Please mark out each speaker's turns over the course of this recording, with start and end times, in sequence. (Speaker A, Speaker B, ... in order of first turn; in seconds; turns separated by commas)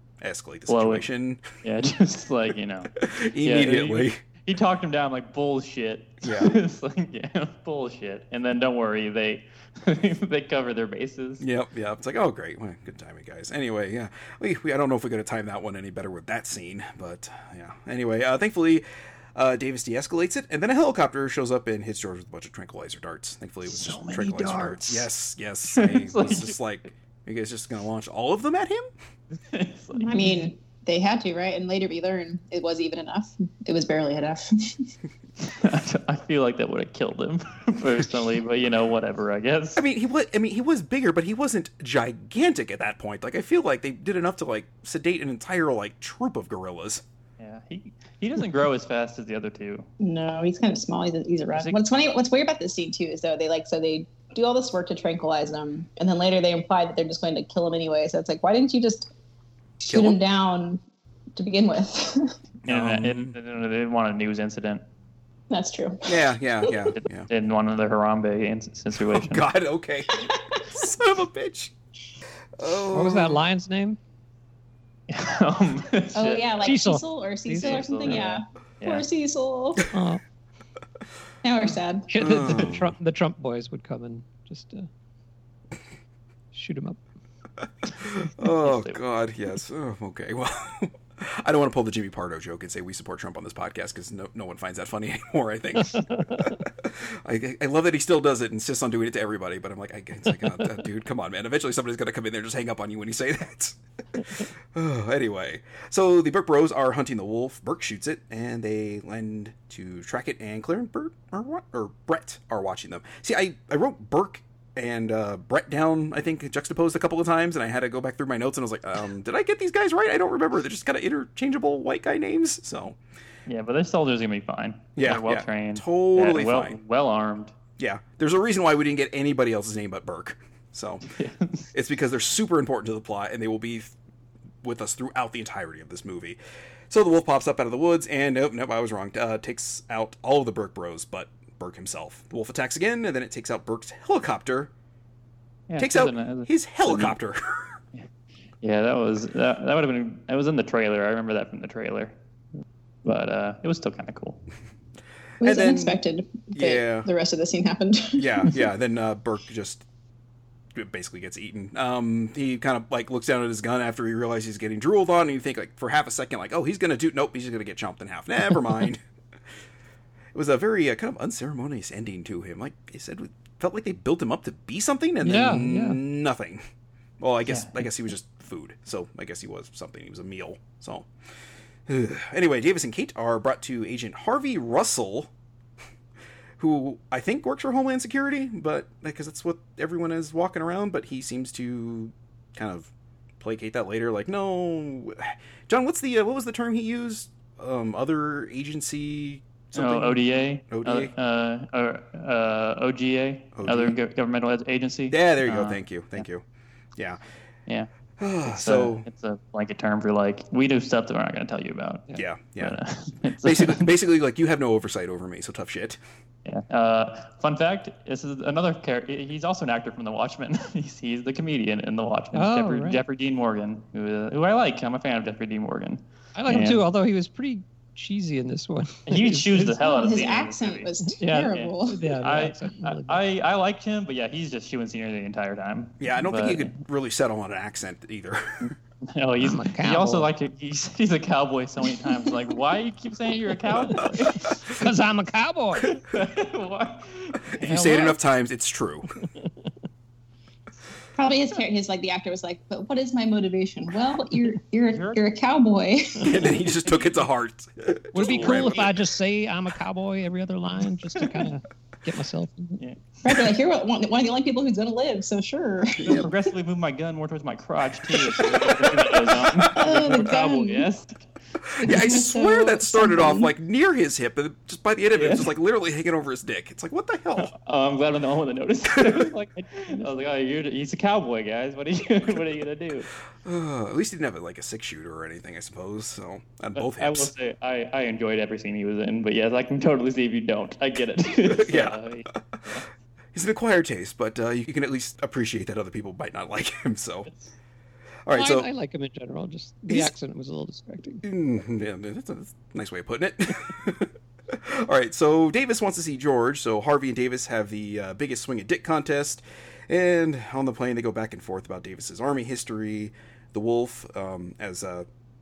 Speaker A: 0.2-1.4, Speaker B: 0.7-11.4, Speaker A: 3.0-4.2, Speaker A: 6.2-6.6, Speaker A: 11.4-18.8, Speaker A: 19.4-28.9, Speaker B: 23.6-25.1, Speaker B: 25.7-26.6, Speaker B: 29.3-30.5, Speaker C: 30.0-34.9, Speaker B: 35.4-39.8, Speaker A: 39.8-47.0, Speaker B: 47.4-49.9, Speaker C: 50.0-59.1, Speaker C: 59.8-60.8, Speaker A: 59.9-60.2, Speaker C: 61.4-62.3, Speaker B: 62.6-64.8, Speaker A: 62.7-63.4, Speaker C: 65.5-66.1, Speaker A: 66.1-67.3, Speaker B: 67.0-69.5, Speaker A: 69.0-71.7, Speaker C: 70.2-70.6, Speaker A: 72.6-73.4, Speaker D: 72.9-74.0, Speaker B: 75.1-76.7, Speaker C: 76.2-79.9, Speaker D: 76.6-78.2, Speaker B: 77.5-79.1, Speaker D: 79.9-80.2, Speaker C: 81.4-82.1, Speaker D: 82.1-84.9, Speaker A: 82.2-82.9, Speaker D: 86.5-87.0, Speaker A: 87.9-103.8, Speaker B: 88.4-89.0, Speaker D: 95.9-96.5, Speaker A: 104.4-123.0, Speaker B: 123.5-127.5, Speaker A: 125.0-126.8, Speaker A: 127.8-131.1, Speaker B: 131.1-131.7, Speaker A: 131.7-133.9, Speaker A: 134.6-136.4, Speaker A: 136.9-144.7, Speaker B: 145.7-147.2, Speaker A: 145.8-147.8, Speaker B: 148.6-152.1, Speaker B: 153.1-154.4, Speaker A: 155.4-156.0, Speaker C: 155.4-158.6, Speaker A: 156.5-157.1, Speaker A: 158.2-159.8, Speaker A: 160.8-169.0, Speaker A: 170.3-176.6, Speaker D: 175.2-176.0, Speaker A: 177.2-181.1, Speaker B: 177.5-177.9, Speaker A: 181.9-185.3, Speaker A: 186.6-201.1, Speaker B: 199.7-206.2, Speaker A: 203.6-204.0, Speaker A: 205.1-206.4, Speaker A: 208.2-209.1, Speaker B: 208.4-213.9, Speaker A: 212.1-212.8, Speaker A: 213.4-216.0, Speaker B: 216.5-226.8, Speaker D: 222.3-223.0, Speaker D: 226.3-229.8, Speaker B: 229.1-236.7, Speaker C: 229.8-232.1, Speaker D: 231.1-233.2, Speaker A: 236.0-238.7, Speaker B: 238.6-244.7, Speaker D: 239.4-240.3, Speaker D: 243.9-245.9, Speaker A: 244.0-244.5, Speaker B: 245.9-248.2, Speaker A: 247.6-249.1, Speaker D: 249.4-249.7, Speaker C: 251.2-256.6, Speaker B: 254.9-255.2, Speaker A: 256.2-258.9, Speaker D: 258.1-262.8, Speaker B: 258.2-258.8, Speaker C: 263.2-266.3, Speaker A: 266.0-266.3, Speaker B: 266.1-271.2, Speaker A: 268.4-269.7, Speaker C: 269.6-270.9, Speaker A: 271.7-277.5, Speaker C: 271.8-273.5, Speaker B: 275.1-275.5, Speaker B: 277.4-283.1, Speaker A: 283.4-287.3, Speaker B: 286.8-292.9, Speaker A: 291.5-292.0, Speaker A: 293.3-297.3, Speaker A: 298.3-298.7, Speaker D: 298.3-301.2, Speaker A: 301.2-315.1